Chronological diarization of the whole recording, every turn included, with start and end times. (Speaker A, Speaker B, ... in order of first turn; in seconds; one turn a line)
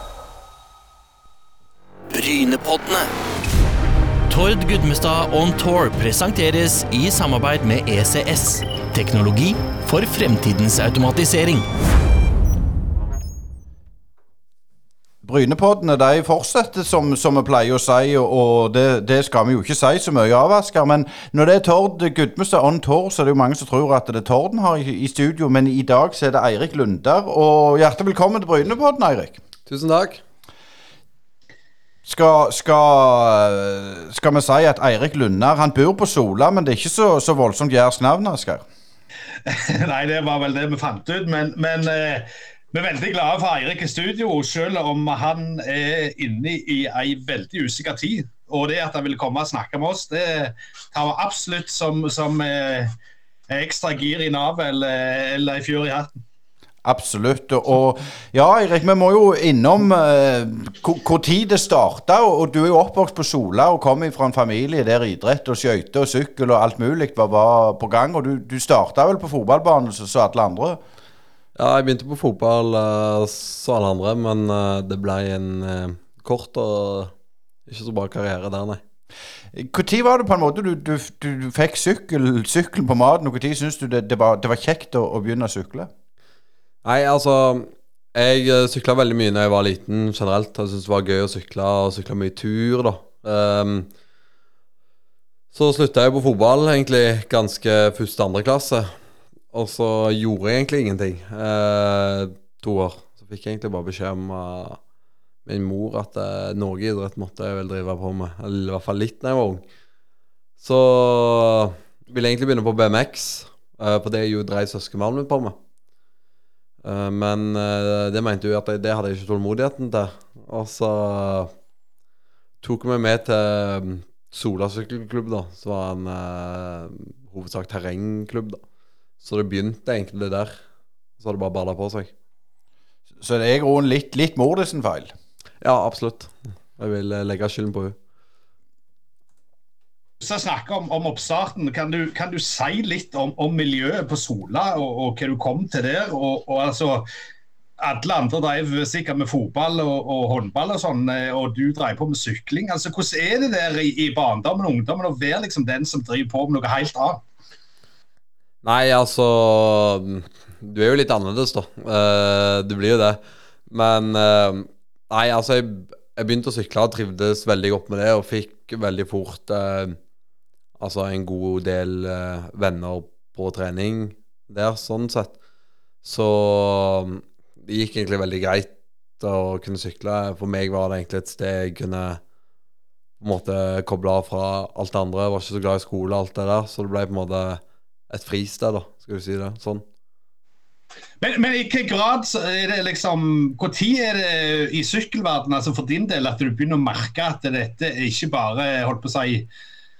Speaker A: 2.1-3.1
Speaker A: 4.3-11.7
Speaker B: 15.2-29.4
Speaker C: 29.6-30.2
Speaker B: 32.0-38.6
Speaker D: 39.5-52.9
Speaker D: 53.5-56.1
Speaker B: 56.8-70.8
Speaker C: 71.5-77.1
Speaker C: 77.7-78.8
Speaker B: 79.5-85.9
Speaker C: 86.8-93.9
Speaker C: 95.5-98.9
Speaker C: 99.5-104.8
Speaker C: 105.4-109.6
Speaker C: 110.6-115.5
Speaker C: 116.8-121.5
Speaker C: 122.6-128.6
Speaker C: 129.2-130.6
Speaker C: 131.2-132.1
Speaker B: 133.2-135.1
Speaker C: 135.6-137.9
Speaker D: 140.2-147.1
Speaker D: 147.8-157.2
Speaker C: 158.6-163.2
Speaker C: 163.7-170.0
Speaker C: 170.8-175.3
Speaker C: 176.0-182.2
Speaker C: 183.2-189.8
Speaker D: 191.2-199.5